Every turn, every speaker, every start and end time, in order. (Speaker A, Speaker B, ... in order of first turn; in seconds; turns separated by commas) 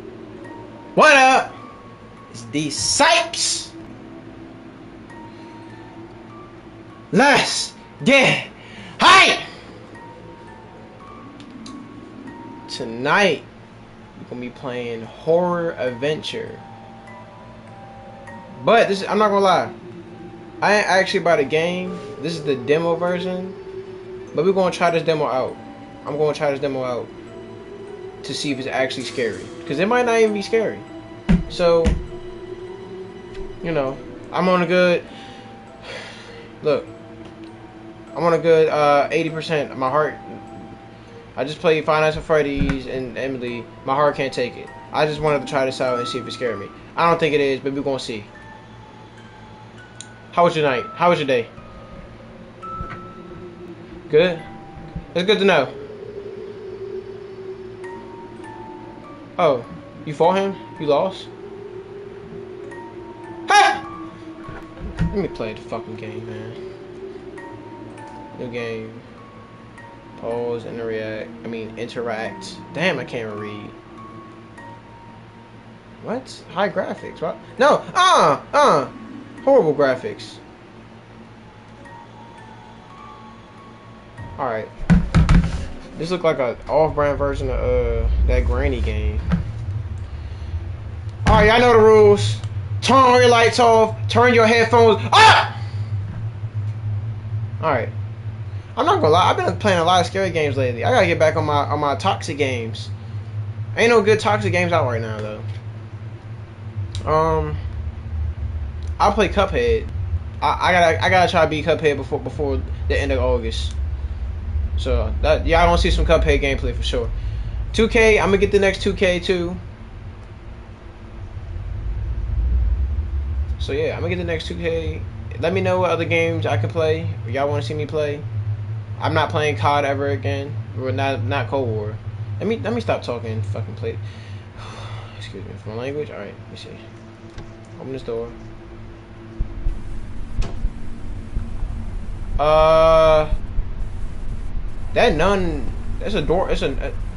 Speaker A: 0.9-1.5, Speaker A: 2.3-3.7, Speaker A: 7.1-9.4, Speaker A: 12.7-13.5, Speaker A: 14.2-16.6, Speaker A: 18.5-19.7, Speaker A: 20.6-23.6, Speaker A: 24.3-27.1, Speaker A: 28.2-30.9, Speaker A: 31.5-32.0, Speaker A: 33.6-35.0, Speaker A: 36.6-36.9, Speaker A: 38.1-40.6, Speaker A: 41.4-48.3, Speaker A: 50.3-51.5, Speaker A: 54.1-54.4, Speaker A: 55.1-55.7, Speaker A: 59.4-61.3, Speaker A: 63.5-63.8, Speaker A: 65.0-66.6, Speaker A: 68.3-69.0, Speaker A: 70.2-73.8, Speaker A: 76.0-80.4, Speaker A: 84.4-84.7, Speaker A: 86.0-89.2, Speaker A: 91.2-95.5, Speaker A: 97.6-97.9, Speaker A: 98.7-102.9, Speaker A: 103.7-105.4, Speaker A: 107.0-107.6, Speaker A: 109.0-113.7, Speaker A: 114.8-117.1, Speaker A: 117.7-119.6, Speaker A: 123.6-128.2, Speaker A: 129.0-134.0, Speaker A: 134.6-136.8, Speaker A: 137.8-138.3, Speaker A: 142.4-143.3, Speaker A: 144.9-146.9